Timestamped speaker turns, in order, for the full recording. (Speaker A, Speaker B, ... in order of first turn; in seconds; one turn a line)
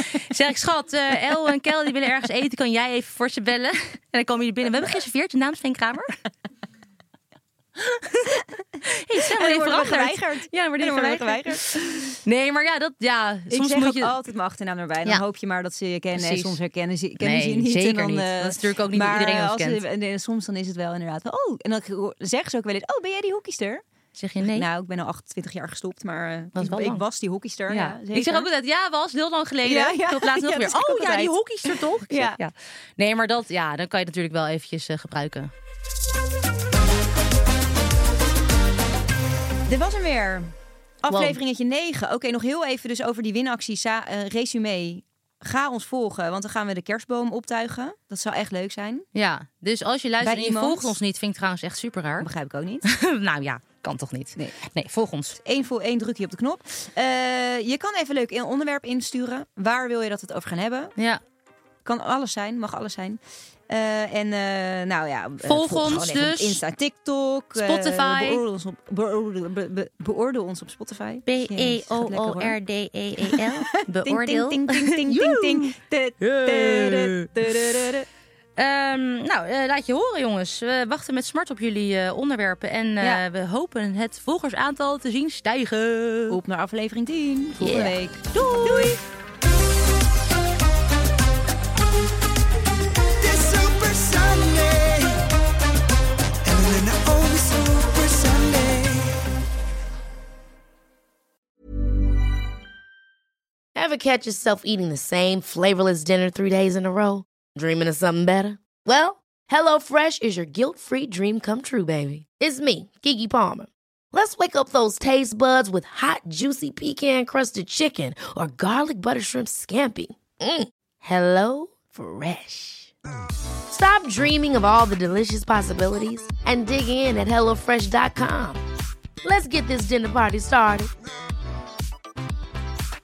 Speaker A: 0.1-6.2
Speaker A: 7.8-14.1
Speaker B: 9.3-12.1
Speaker B: 13.5-23.8
Speaker A: 16.1-16.6
Speaker A: 17.2-19.8
Speaker A: 24.1-24.7
Speaker B: 24.4-28.5
Speaker A: 26.6-27.0
Speaker A: 27.7-35.5
Speaker B: 29.6-31.3
Speaker B: 32.1-32.4
Speaker B: 39.7-49.0
Speaker A: 41.1-41.4
Speaker A: 49.1-52.3
Speaker B: 50.2-51.0
Speaker B: 52.2-52.9
Speaker A: 52.8-55.4
Speaker B: 55.4-60.9
Speaker B: 61.8-72.5
Speaker A: 65.4-66.6
Speaker A: 67.5-68.4
Speaker A: 71.2-77.9
Speaker B: 73.2-73.5
Speaker B: 74.0-78.0
Speaker A: 78.6-86.4
Speaker B: 86.3-89.0
Speaker A: 87.6-89.0
Speaker C: 93.2-95.2
Speaker C: 96.4-99.2
Speaker D: 103.8-122.9
Speaker D: 123.7-128.6
Speaker D: 129.2-130.9